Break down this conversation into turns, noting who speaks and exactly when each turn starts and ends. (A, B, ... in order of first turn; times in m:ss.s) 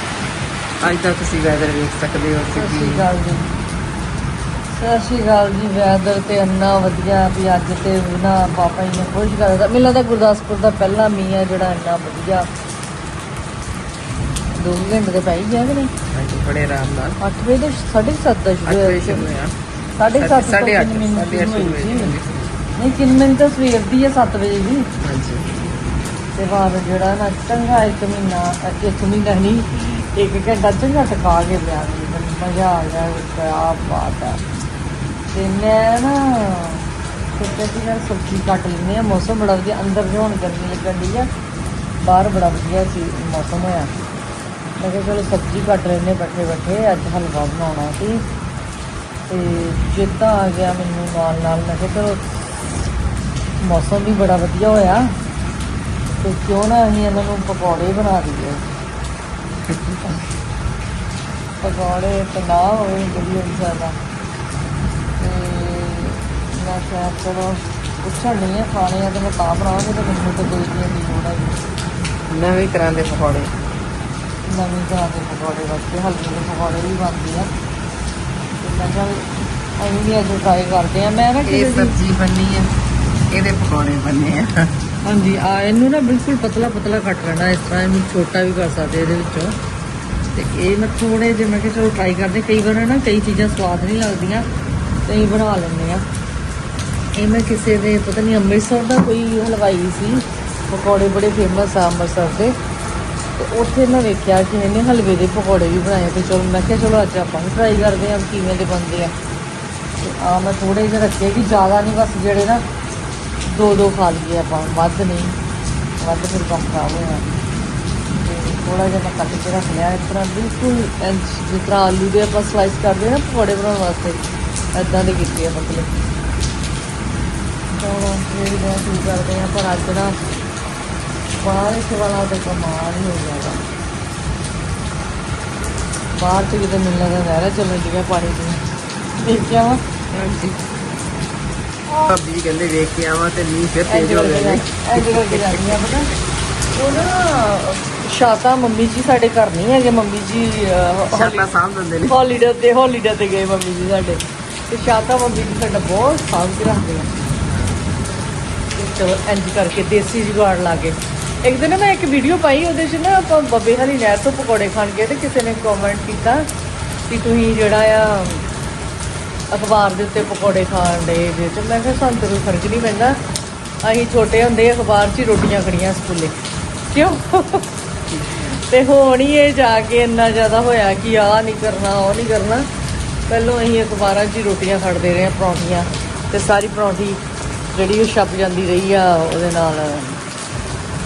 0:00.8-0:03.0 A
0:02.5-0:03.5 B
0:04.7-0:12.5 B
0:14.6-0:15.9 B
0:16.1-0:17.2 A
0:17.2-0:19.3 B
0:18.6-0:19.5 A
0:19.9-0:22.1 B
0:20.2-0:22.5 A
0:22.8-0:24.9 B
0:25.0-0:25.5 A
0:26.4-0:34.4 B
0:35.3-0:41.3 B
0:42.0-0:43.9 B
0:44.8-0:48.2 B
0:49.3-0:52.3 B
0:53.6-0:55.1 B
0:56.2-0:58.6 B
0:59.7-1:00.0 A
1:01.6-1:04.0 B
1:05.2-1:11.6 B
1:12.3-1:13.5 A
1:14.4-1:17.5 B
1:18.6-1:21.9 B
1:21.4-1:22.7 A
1:23.3-1:24.7 A
1:25.0-1:29.6 B
1:30.3-1:34.4 B
1:35.1-1:36.0 B
1:37.1-1:42.5 B
1:43.4-1:49.1 B
1:50.0-1:52.6 B
1:53.4-1:55.4 B
1:56.0-1:57.2 B
1:58.2-2:04.2 B
2:04.7-2:05.9 B
2:07.7-2:10.1 B
2:11.4-2:13.6 B
2:16.1-2:18.6 B
2:19.2-2:19.8 B
2:20.1-2:20.6 A
2:22.0-2:25.8 A
2:23.8-2:26.1 B
2:26.7-2:31.5 B
2:31.1-2:32.2 A
2:32.1-2:37.1 B
2:38.7-2:46.5 B
2:47.1-2:48.4 B
2:49.5-2:53.2 B
2:53.8-2:56.4 B
2:56.9-3:02.6 B
3:03.3-3:07.2 B
3:07.7-3:10.2 B